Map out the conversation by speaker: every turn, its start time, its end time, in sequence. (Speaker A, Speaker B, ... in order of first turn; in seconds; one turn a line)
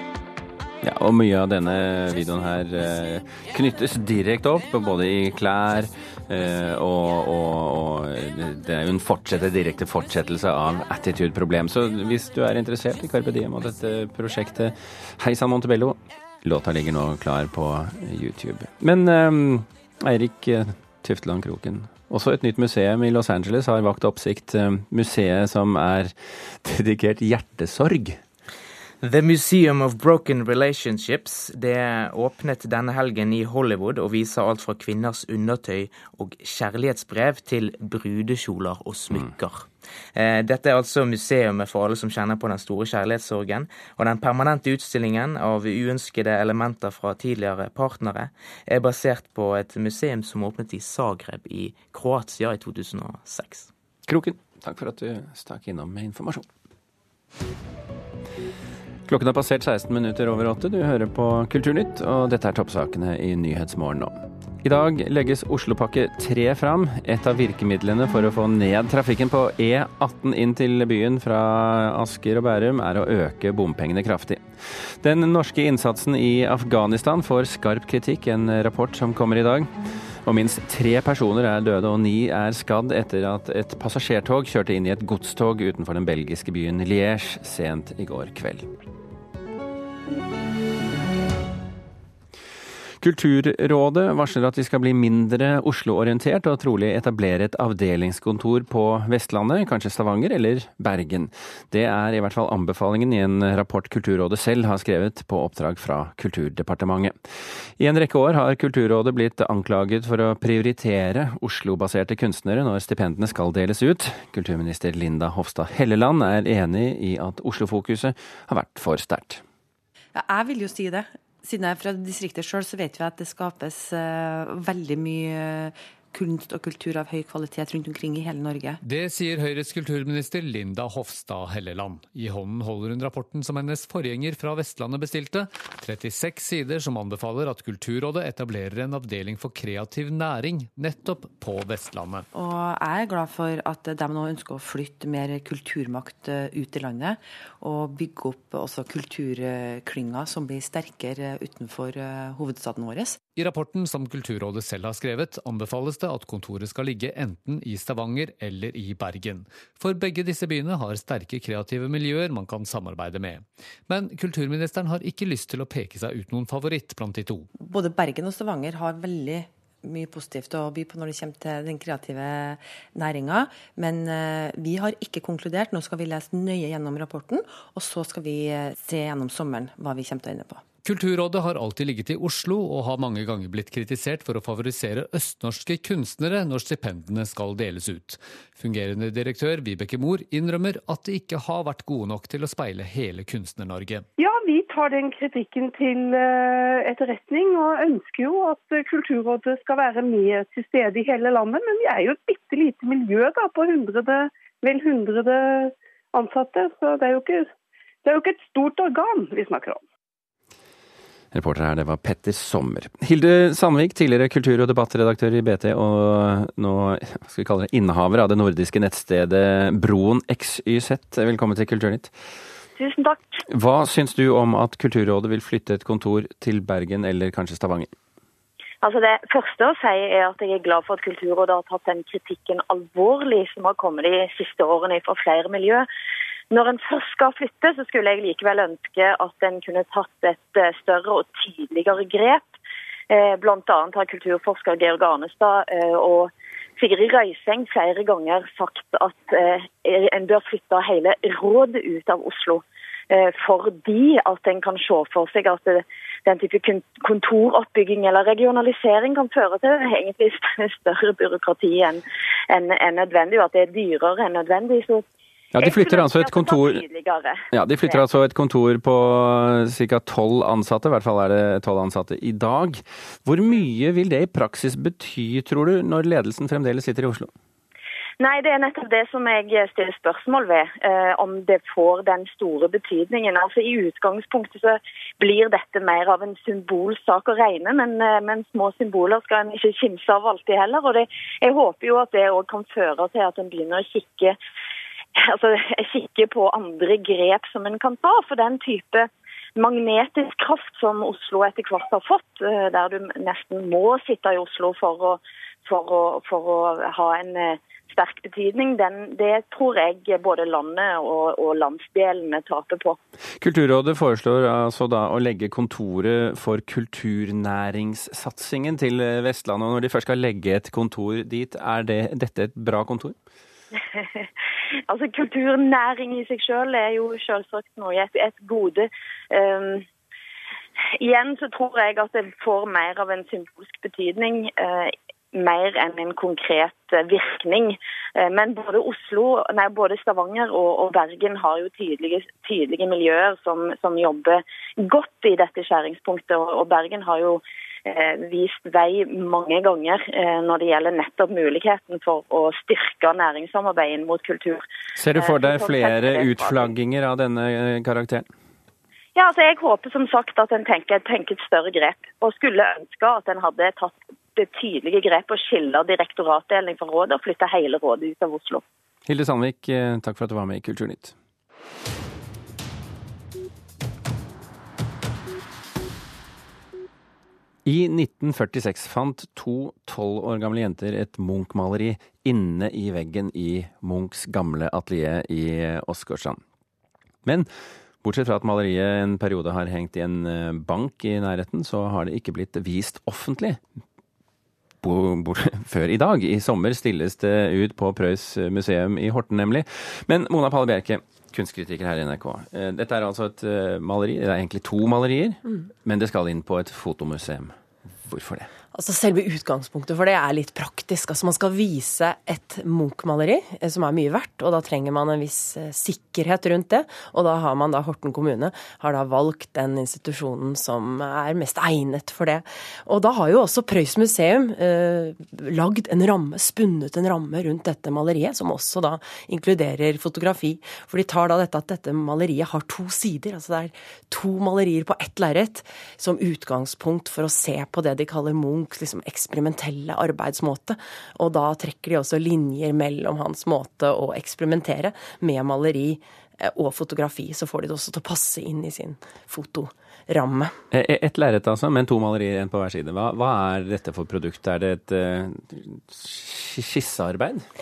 Speaker A: 0.8-28.2
Speaker B: 29.0-53.7
Speaker A: 54.1-56.5
Speaker A: 59.1-74.5
Speaker A: 75.0-79.7
Speaker A: 80.2-88.7
Speaker A: 93.0-107.2
Speaker A: 107.8-119.4
Speaker C: 120.2-128.8
Speaker D: 128.8-142.3
Speaker C: 142.4-153.2
Speaker D: 153.4-167.5
Speaker C: 167.7-180.6
Speaker D: 180.8-194.1
Speaker E: 194.2-207.5
Speaker E: 208.0-209.8
Speaker A: 211.3-222.1
Speaker F: 222.8-223.4
Speaker A: 223.5-227.9
Speaker F: 228.8-235.9
Speaker F: 236.5-242.6
Speaker F: 243.1-265.0
Speaker A: 265.6-266.8
Speaker F: 265.6-268.0
Speaker A: 267.5-277.3
Speaker F: 278.2-294.4
Speaker F: 295.2-313.0
Speaker A: 313.4-323.2
Speaker F: 324.0-324.2
Speaker F: 324.9-329.9
Speaker F: 331.0-354.6
Speaker A: 355.0-358.3
Speaker F: 355.2-356.7
Speaker F: 359.1-368.6
Speaker A: 369.1-371.1
Speaker A: 377.6-386.4
Speaker A: 388.0-393.6
Speaker A: 394.8-408.5
Speaker G: 408.7-450.5
Speaker A: 450.7-457.4